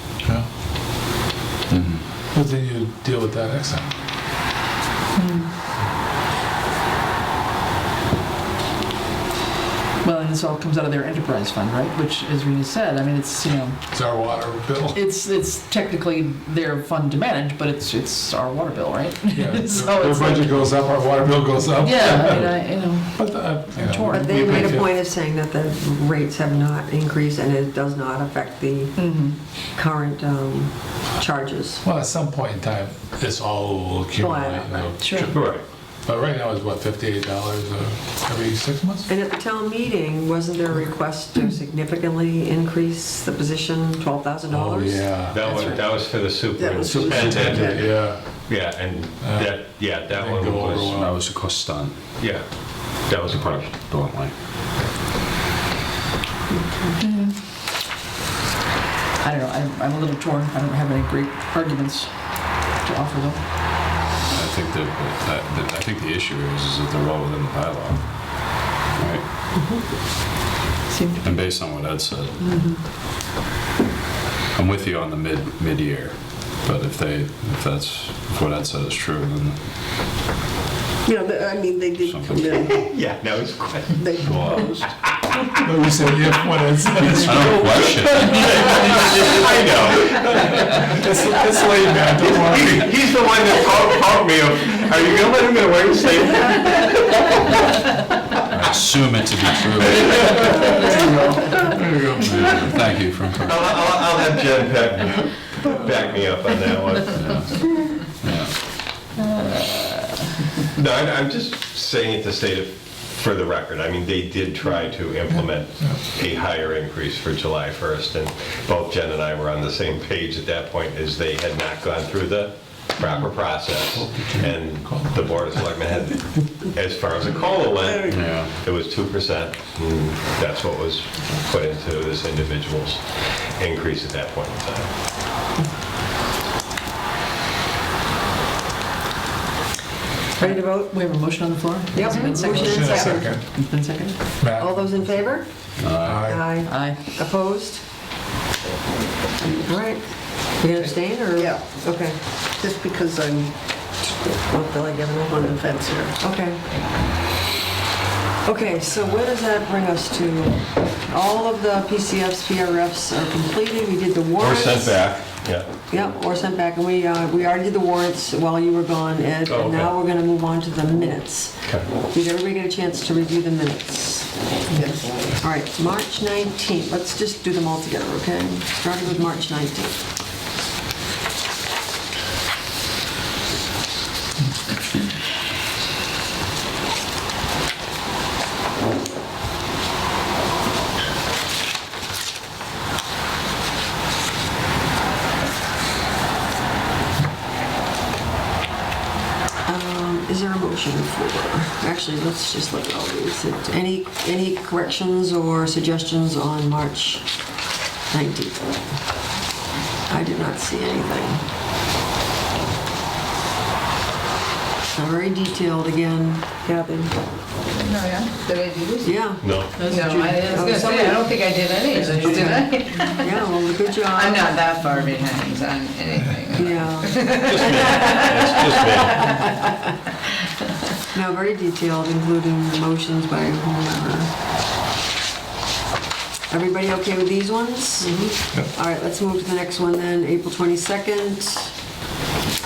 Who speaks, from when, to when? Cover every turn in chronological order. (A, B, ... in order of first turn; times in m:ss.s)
0:01.7-0:02.0 A
0:02.3-0:03.9 B
0:05.1-0:05.5 C
0:10.0-0:14.2 C
0:13.9-0:15.0 B
0:14.9-0:20.7 C
0:19.3-0:25.0 B
0:21.8-0:24.7 C
0:24.1-0:29.1 D
0:29.0-0:29.4 C
0:29.7-0:31.8 D
0:31.8-0:39.1 B
0:34.2-0:34.9 D
0:35.0-0:35.3 C
0:35.3-0:35.6 E
0:39.1-0:45.7 D
0:44.5-0:45.4 B
0:45.3-0:50.9 E
0:46.6-0:47.9 F
0:46.8-0:51.2 B
0:50.9-0:52.1 A
0:52.2-0:53.8 E
0:53.3-0:54.3 A
0:56.6-0:57.0 D
0:57.0-0:57.4 C
0:59.2-1:04.0 C
1:04.3-1:09.2 A
1:09.5-1:09.8 D
1:10.9-1:11.4 C
1:11.2-1:12.7 A
1:12.4-1:12.8 C
1:14.5-1:19.6 A
1:21.0-1:22.8 F
1:22.0-1:22.7 A
1:22.7-1:25.2 E
1:24.0-1:24.9 F
1:25.6-1:27.5 B
1:27.1-1:30.4 E
1:27.2-1:28.5 A
1:28.7-1:29.0 B
1:29.8-1:32.9 B
1:32.2-1:37.3 E
1:38.5-1:40.4 A
1:40.1-1:40.5 E
1:40.3-1:42.8 B
1:42.3-1:43.6 A
1:43.4-1:47.7 E
1:47.1-1:48.6 A
1:50.7-2:14.9 E
2:03.5-2:05.6 B
2:07.8-2:08.4 F
2:08.1-2:08.6 A
2:20.4-2:24.2 C
2:20.4-2:20.9 D
2:21.9-2:23.3 D
2:22.4-2:23.7 B
2:24.4-2:25.1 B
2:24.5-2:27.8 D
2:25.8-2:26.3 A
2:26.0-2:26.6 B
2:26.5-2:27.0 C
2:29.6-2:32.2 D
2:31.4-2:31.6 F
2:32.6-2:33.6 F
2:34.4-2:35.5 D
2:35.3-2:36.2 F
2:36.2-2:36.6 D
2:38.4-2:45.3 D
2:44.4-2:45.7 E
2:45.9-2:54.5 D
2:49.4-2:49.9 E
2:54.7-2:55.4 F
2:55.4-3:00.0 D
3:19.6-3:27.5 D
3:28.1-3:28.8 D
3:30.1-3:31.4 D
3:34.9-3:37.1 D
3:37.6-3:43.5 G
3:39.0-3:39.9 D
3:39.4-3:39.8 E
3:39.6-3:40.7 C
3:40.5-3:41.3 D
3:41.8-3:43.1 C
3:42.2-3:44.6 D
3:44.1-3:49.5 G
3:44.8-3:45.1 C
3:46.5-3:48.3 D
3:47.4-3:49.5 E
3:51.1-3:54.3 D
3:56.5-4:01.7 D
3:58.0-3:58.4 F